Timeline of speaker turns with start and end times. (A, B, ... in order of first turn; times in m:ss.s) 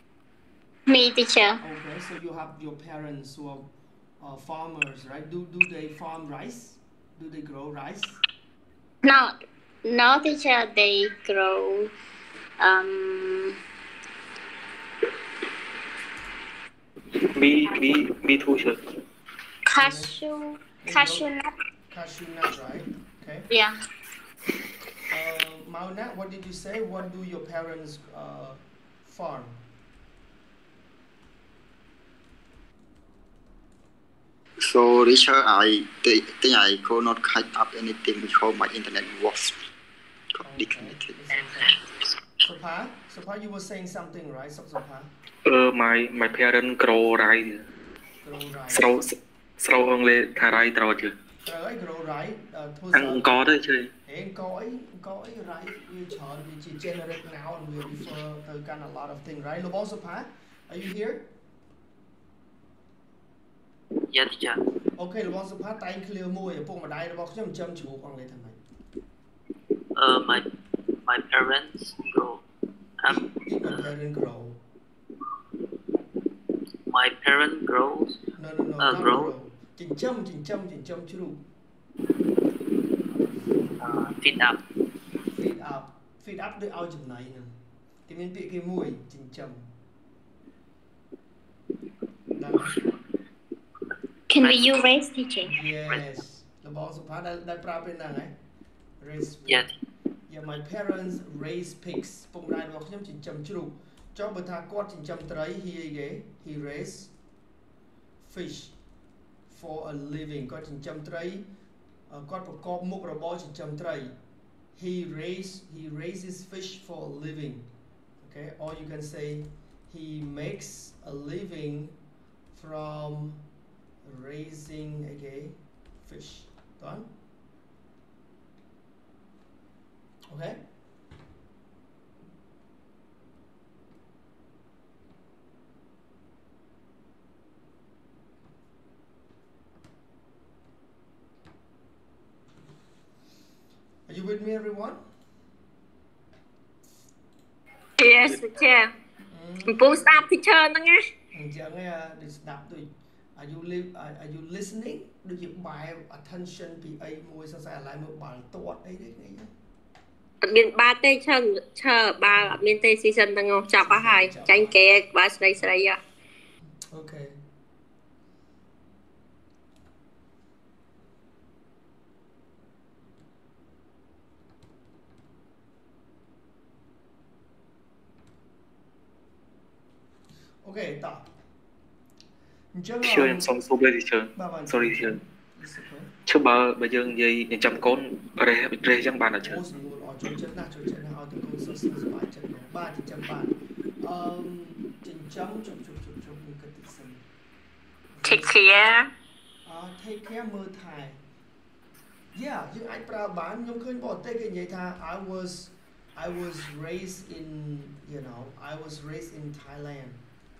0:00.9-0:01.6 A
0:01.6-0:08.2 B
0:09.0-0:11.9 A
0:12.6-0:13.6 A
0:17.3-0:18.8 C
0:19.7-0:21.5 A
0:19.8-0:20.1 B
0:20.8-0:21.2 B
0:21.9-0:23.5 B
0:23.5-0:23.8 A
0:25.1-0:29.6 B
0:34.6-0:39.6 D
0:40.4-0:41.8 B
0:40.5-0:41.3 D
0:42.4-0:45.1 B
0:45.4-0:47.6 C
0:48.2-0:48.9 B
0:48.7-0:51.1 C
0:51.4-0:53.4 B
0:52.9-0:53.9 C
0:54.0-1:01.3 B
1:04.1-1:04.6 E
1:05.0-1:08.6 B
1:10.0-1:10.5 E
1:11.0-1:12.4 E
1:13.0-1:13.9 E
1:13.1-1:14.6 B
1:16.9-1:18.2 E
1:18.4-1:21.4 B
1:18.8-1:19.3 E
1:23.8-1:24.6 E
1:25.3-1:27.5 B
1:28.1-1:29.6 B
1:32.4-1:32.8 B
1:34.3-1:35.5 A
1:34.4-1:34.8 E
1:35.4-1:38.3 B
1:39.0-1:39.7 B
1:39.4-1:39.7 E
1:40.3-1:47.1 B
1:48.2-1:48.7 B
1:49.5-1:51.5 B
1:52.1-1:54.1 B
1:54.8-1:57.7 B
1:58.2-2:02.0 B
2:02.5-2:03.4 B
2:04.0-2:07.1 B
2:10.3-2:10.6 B
2:24.1-2:25.0 B
2:28.0-2:28.9 F
2:29.3-2:30.3 B
2:29.7-2:31.0 F
2:31.3-2:39.5 B
2:40.4-2:46.0 F
2:42.3-2:42.6 B
2:43.8-2:45.7 B
2:46.9-2:47.4 B
3:00.6-3:01.3 B
3:02.7-3:03.5 B
3:03.0-3:05.2 C
3:04.3-3:06.1 B
3:06.3-3:09.6 C
3:09.4-3:17.2 B
3:18.1-3:18.7 B
3:18.2-3:19.1 F
3:19.6-3:21.2 B
3:22.3-3:30.2 B